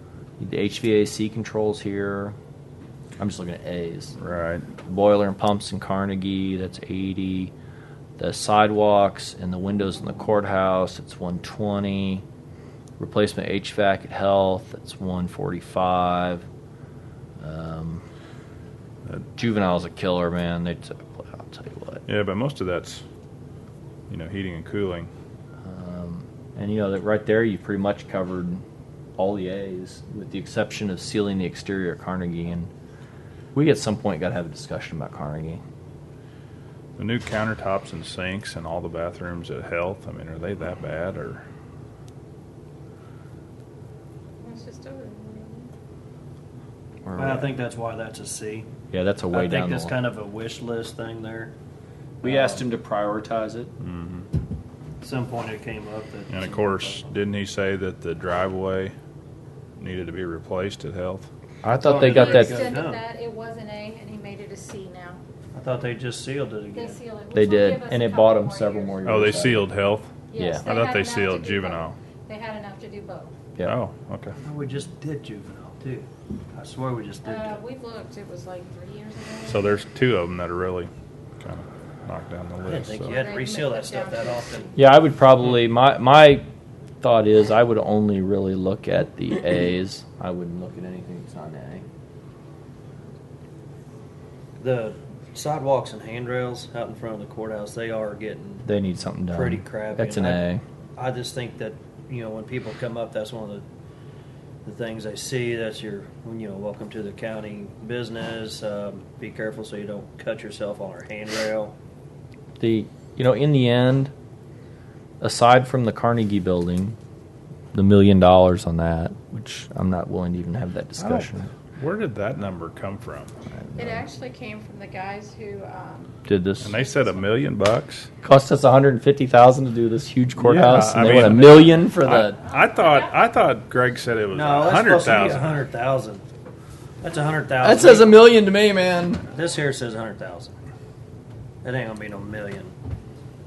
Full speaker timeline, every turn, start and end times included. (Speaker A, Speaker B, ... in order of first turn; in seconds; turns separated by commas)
Speaker A: 0.4-2.4, Speaker A: 3.2-4.2, Speaker B: 4.2-4.7, Speaker A: 4.8-7.5, Speaker A: 8.2-12.2, Speaker A: 13.0-16.4, Speaker A: 17.4-18.0, Speaker A: 19.4-22.1, Speaker B: 22.1-23.1, Speaker B: 24.1-25.1, Speaker A: 25.6-28.6, Speaker A: 29.2-32.7, Speaker A: 33.5-35.6, Speaker B: 37.0-41.4, Speaker C: 44.4-45.7, Speaker A: 47.0-47.5, Speaker D: 47.2-48.7, Speaker A: 48.9-50.0, Speaker D: 49.3-51.5, Speaker D: 52.2-52.7, Speaker A: 52.2-53.7, Speaker B: 53.8-54.3, Speaker D: 55.0-57.1, Speaker B: 56.3-59.0, Speaker B: 59.8-61.3, Speaker A: 61.6-62.7, Speaker D: 61.8-63.0, Speaker C: 62.0-65.2, Speaker D: 65.5-67.0, Speaker C: 66.7-69.2, Speaker A: 67.3-69.7, Speaker B: 69.0-72.0, Speaker C: 70.3-73.3, Speaker A: 70.4-70.7, Speaker B: 73.6-74.3, Speaker D: 74.4-77.6, Speaker C: 77.2-79.8, Speaker B: 79.5-83.2, Speaker D: 82.6-84.8, Speaker C: 83.0-84.7, Speaker A: 84.8-86.5, Speaker A: 87.0-91.9, Speaker D: 94.6-98.7, Speaker A: 98.7-100.6, Speaker D: 99.3-100.4, Speaker D: 101.0-103.7, Speaker D: 104.7-111.7, Speaker A: 112.6-114.1, Speaker A: 115.2-117.0, Speaker A: 117.7-121.5, Speaker B: 121.0-123.3, Speaker A: 123.6-124.0, Speaker C: 123.8-126.2, Speaker A: 126.3-126.7, Speaker B: 126.6-128.1, Speaker C: 126.8-127.2, Speaker A: 128.2-132.4, Speaker B: 130.4-135.6, Speaker C: 132.4-133.2, Speaker D: 134.3-136.2, Speaker D: 137.0-138.3, Speaker A: 137.6-139.2, Speaker D: 139.3-140.6, Speaker D: 141.6-142.7